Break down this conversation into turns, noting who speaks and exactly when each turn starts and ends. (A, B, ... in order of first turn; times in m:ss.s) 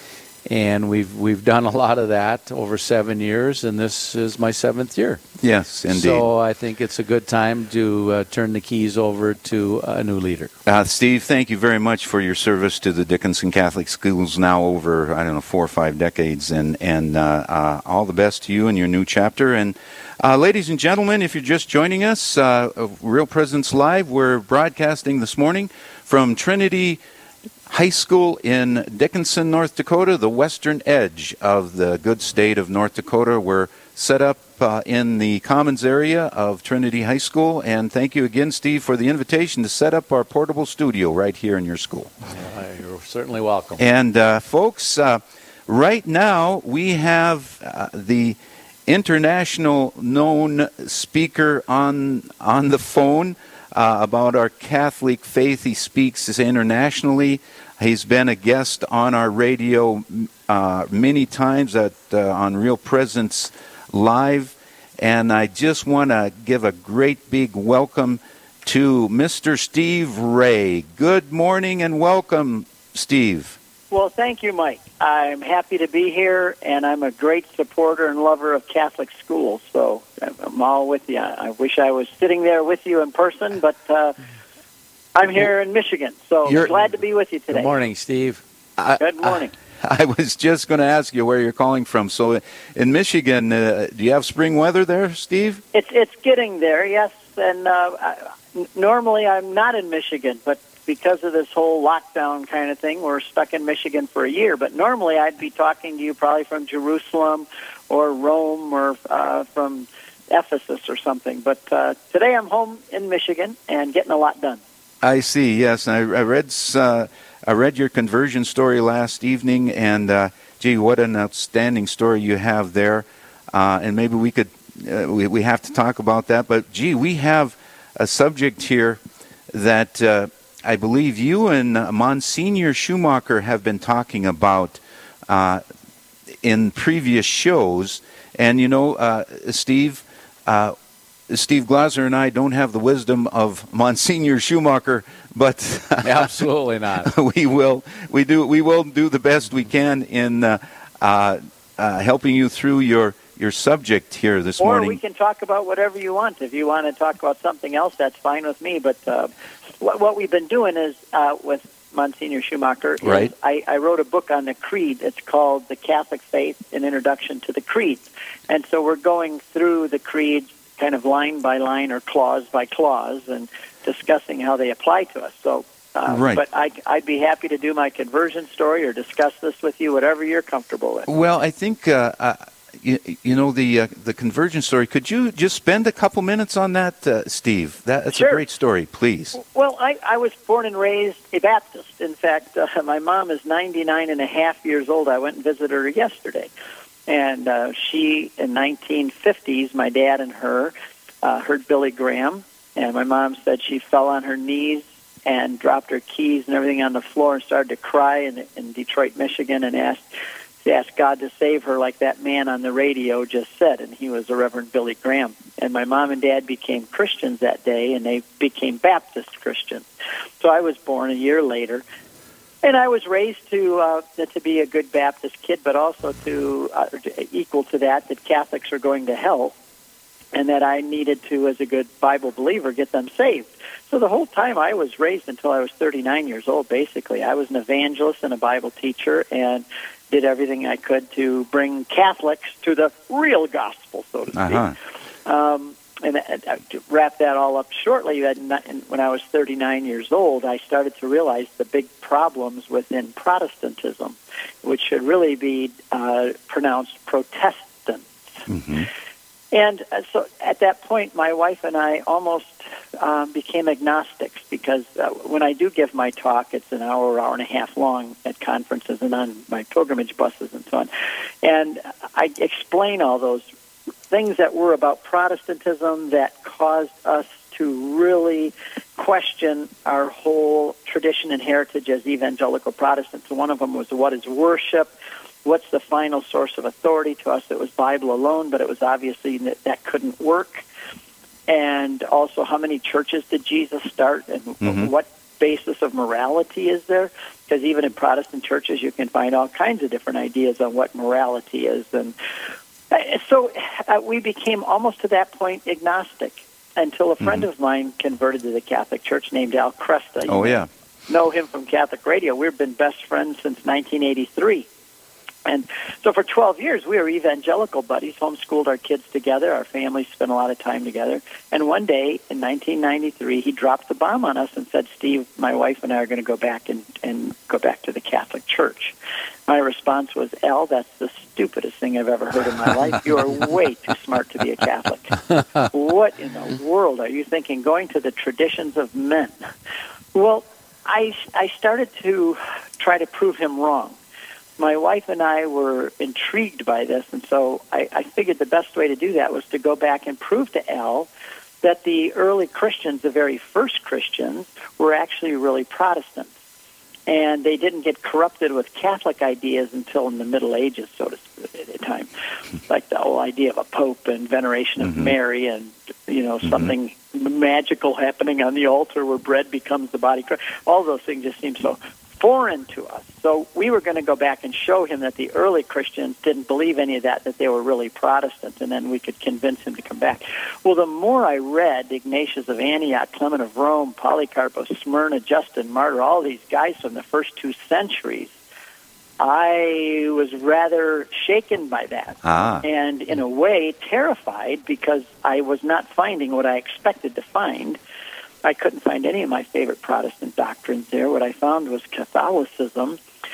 0:00.5-0:05.2 A
0:05.4-0:06.3 B
0:05.9-0:10.5 A
0:10.6-0:27.0 B
0:27.7-0:42.1 B
0:42.3-0:43.9 A
0:43.8-1:13.6 B
1:13.9-1:24.2 C
1:25.1-1:27.8 C
1:26.5-1:26.8 A
1:27.5-1:28.4 A
1:28.8-1:35.6 B
1:29.0-1:29.5 C
1:35.7-1:54.6 C
1:55.0-2:09.0 B
2:09.5-2:15.6 B
2:16.4-2:20.7 B
2:21.3-2:26.4 B
2:26.0-2:27.1 A
2:27.0-2:35.0 B
2:34.6-3:01.1 C
2:43.0-2:43.3 B
2:56.1-2:56.4 B
3:01.1-3:09.4 B
3:08.1-3:08.4 C
3:09.4-3:16.5 C
3:17.1-3:30.0 C
3:30.6-3:39.8 C
3:40.4-3:41.8 C
3:42.6-3:49.5 C
3:50.3-4:04.6 C
4:04.3-4:04.8 B
4:05.2-4:18.0 C
4:18.5-4:18.9 B
4:19.5-4:30.9 C
4:31.4-4:33.4 C
4:34.1-4:44.9 C
4:45.4-4:50.6 C
4:51.5-5:02.1 C
4:54.6-4:54.9 B
5:02.9-5:14.7 C
5:10.2-5:10.7 B
5:15.4-5:28.9 C
5:29.5-5:39.3 C
5:40.1-5:43.9 C
5:44.6-5:51.1 C
5:51.6-5:56.3 C
5:57.1-6:02.1 C
6:02.7-6:28.3 C
6:04.8-6:05.1 B
6:06.4-6:06.7 B
6:29.2-6:37.8 C
6:32.2-6:32.6 B
6:38.4-6:43.0 C